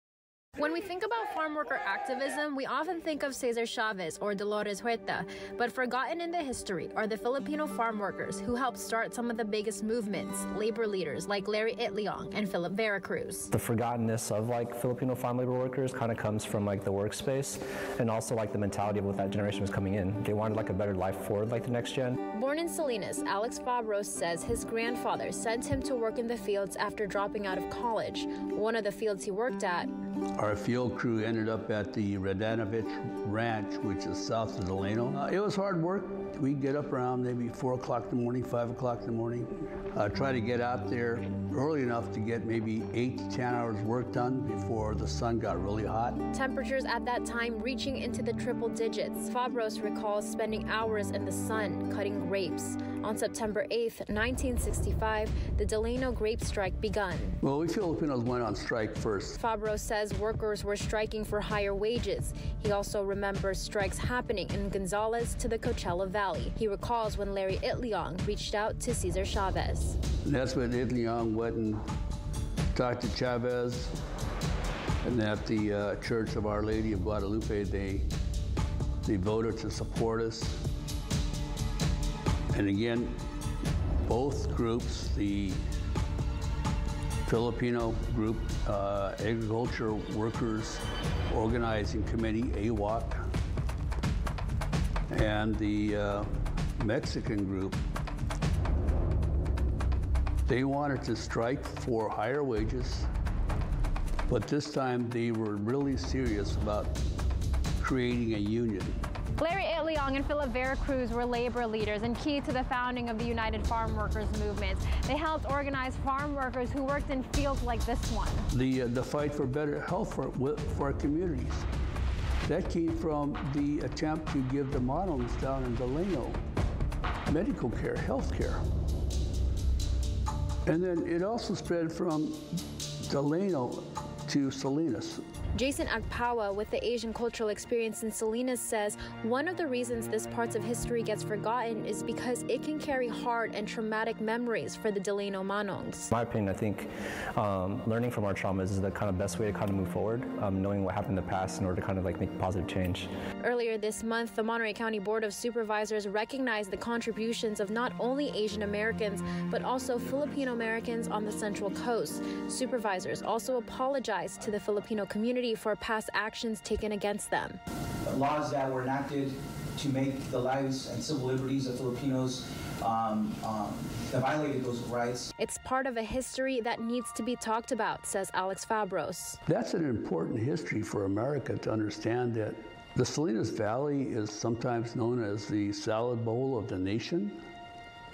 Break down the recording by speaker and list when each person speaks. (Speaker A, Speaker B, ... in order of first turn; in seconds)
Speaker A: 0.6-13.5, 22.3-29.9, 46.3-57.4, 59.4-70.0, 109.4-118.5, 135.5-146.1, 153.4-167.6, 175.4-179.4
Speaker B: 13.5-22.2, 146.1-153.1
Speaker C: 30.4-46.2, 57.4-59.4, 70.2-71.8, 72.7-74.0, 75.0-78.1, 79.0-80.6, 82.5-83.2, 84.0-85.6, 87.3-93.3, 95.1-97.8, 100.5-103.1, 104.3-107.0, 107.8-109.0, 118.5-121.7, 122.5-126.4, 127.3-128.7, 130.7-135.2, 179.5-187.4
Speaker D: 168.1-175.3